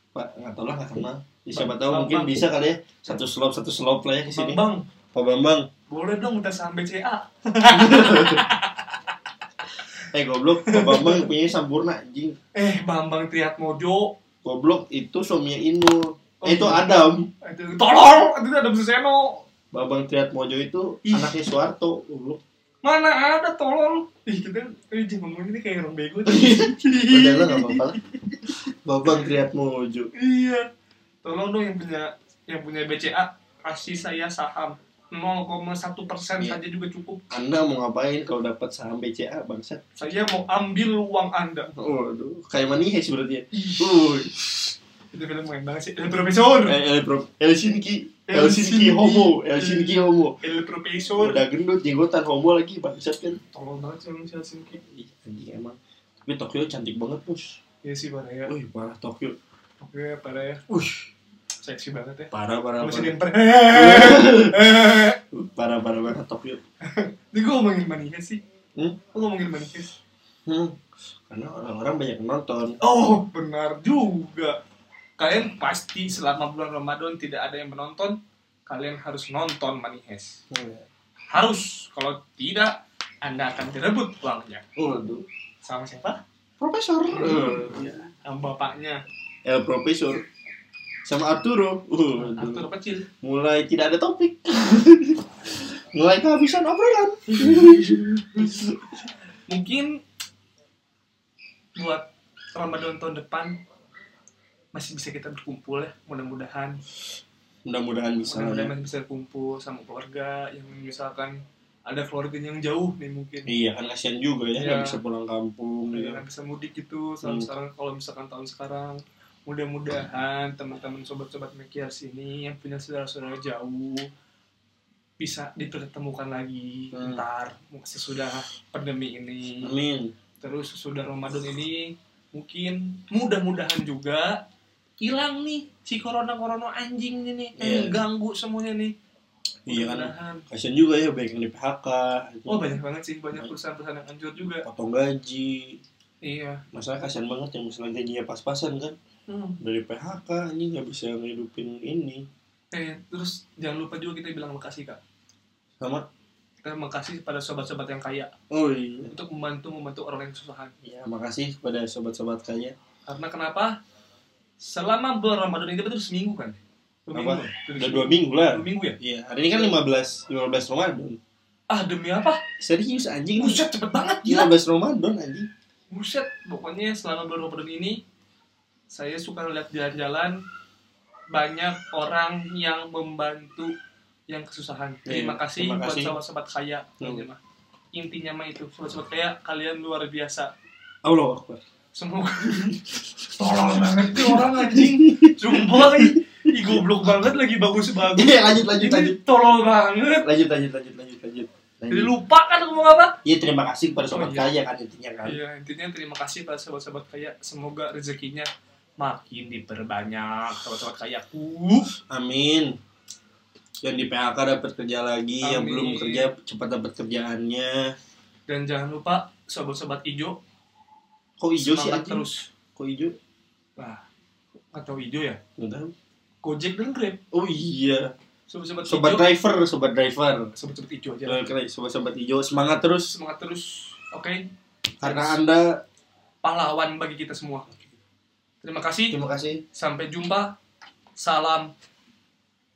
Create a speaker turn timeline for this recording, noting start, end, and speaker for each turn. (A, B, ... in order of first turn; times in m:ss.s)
0:00.1-0:04.6 A
0:01.5-0:02.4 B
0:04.3-0:04.8 B
0:05.1-0:05.7 A
0:05.9-0:08.9 B
0:07.7-0:08.4 A
0:10.1-0:12.4 A
0:10.6-0:11.2 B
0:12.5-0:14.1 B
0:14.4-0:17.3 A
0:16.4-0:19.4 B
0:19.7-0:22.4 A
0:21.0-0:21.3 B
0:22.8-0:28.3 B
0:26.3-0:28.0 A
0:28.5-0:30.1 A
0:29.0-0:29.4 B
0:30.1-0:30.6 B
0:31.2-0:37.2 B
0:37.3-0:39.8 A
0:40.0-0:41.7 B
0:41.8-0:44.7 A
0:43.5-0:44.1 B
0:45.1-0:46.8 B
0:46.6-0:50.4 A
0:48.3-0:51.4 B
0:51.2-0:53.4 A
0:53.5-0:54.8 B
0:54.9-0:57.6 A
0:57.8-0:58.5 B
0:58.4-0:59.4 A
0:59.8-1:00.6 B
1:00.7-1:01.1 A
1:01.6-1:05.2 B
1:02.3-1:03.2 A
1:03.7-1:04.7 A
1:05.3-1:06.6 A
1:06.9-1:08.4 B
1:09.1-1:09.9 B
1:10.4-1:12.8 A
1:12.8-1:14.6 B
1:15.2-1:20.4 B
1:20.5-1:20.8 A
1:21.3-1:24.6 B
1:24.8-1:25.2 A
1:25.6-1:26.2 B
1:26.6-1:28.0 A
1:27.1-1:29.0 B
1:29.4-1:30.2 A
1:31.0-1:32.6 A
1:32.2-1:33.0 B
1:33.2-1:38.8 A
1:37.3-1:38.7 B
1:39.5-1:39.9 B
1:41.8-1:43.6 B
1:44.7-1:46.8 B
1:47.6-1:48.7 A
1:48.3-1:53.5 B
1:53.5-1:56.2 A
1:54.6-1:55.0 B
1:55.9-2:04.1 B
1:57.2-1:57.5 A
2:05.2-2:09.7 B
2:06.9-2:07.2 A
2:09.6-2:10.1 A
2:10.4-2:14.4 B
2:15.0-2:18.9 B
2:17.6-2:18.0 A
2:19.7-2:22.8 A
2:19.7-2:20.4 B
2:22.5-2:24.6 B
2:24.6-2:25.8 A
2:26.2-2:26.6 B
2:26.7-2:29.0 A
2:29.3-2:29.6 B
2:29.6-2:32.2 A
2:32.7-2:35.0 B
2:35.8-2:36.0 A
2:36.6-2:38.3 B
2:38.5-2:39.1 A
2:39.1-2:40.7 B
2:40.8-2:42.7 A
2:43.1-2:43.8 B
2:44.6-2:49.0 B
2:47.1-2:51.2 A
2:51.7-2:52.4 B
2:52.6-2:53.6 A
2:53.4-2:54.5 B
2:54.2-2:55.5 A
2:55.9-2:58.0 B
2:58.9-3:00.4 B
3:01.3-3:03.7 B
3:04.3-3:07.4 B
3:05.0-3:06.2 A
3:07.0-3:07.3 A
3:07.9-3:10.5 B
3:11.0-3:11.6 A
3:11.9-3:12.7 B
3:12.4-3:12.8 A
3:13.4-3:20.3 B
3:13.4-3:16.2 A
3:18.0-3:19.2 A
3:20.2-3:22.1 A
3:21.9-3:23.1 B
3:23.2-3:25.4 A
3:24.1-3:24.5 B
3:25.2-3:28.5 B
3:29.0-3:31.9 B
3:32.1-3:32.7 A
3:33.8-3:37.9 A
3:35.4-3:36.3 B
3:38.5-3:40.4 B
3:41.4-3:43.2 A
3:41.6-3:42.5 B
3:43.8-3:44.0 B
3:44.7-3:45.4 B
3:45.6-3:45.9 A
3:46.4-3:47.2 B
3:47.3-3:48.1 A
3:48.5-3:49.3 B
3:48.8-3:50.5 A
3:50.5-3:51.4 B
3:51.2-3:53.1 A
3:53.1-3:54.4 B
3:55.0-3:55.8 A
3:55.0-3:55.4 B
3:56.4-3:57.7 B
3:58.6-3:59.2 B
3:59.1-3:59.6 A
3:59.7-4:00.5 B
4:01.2-4:01.7 B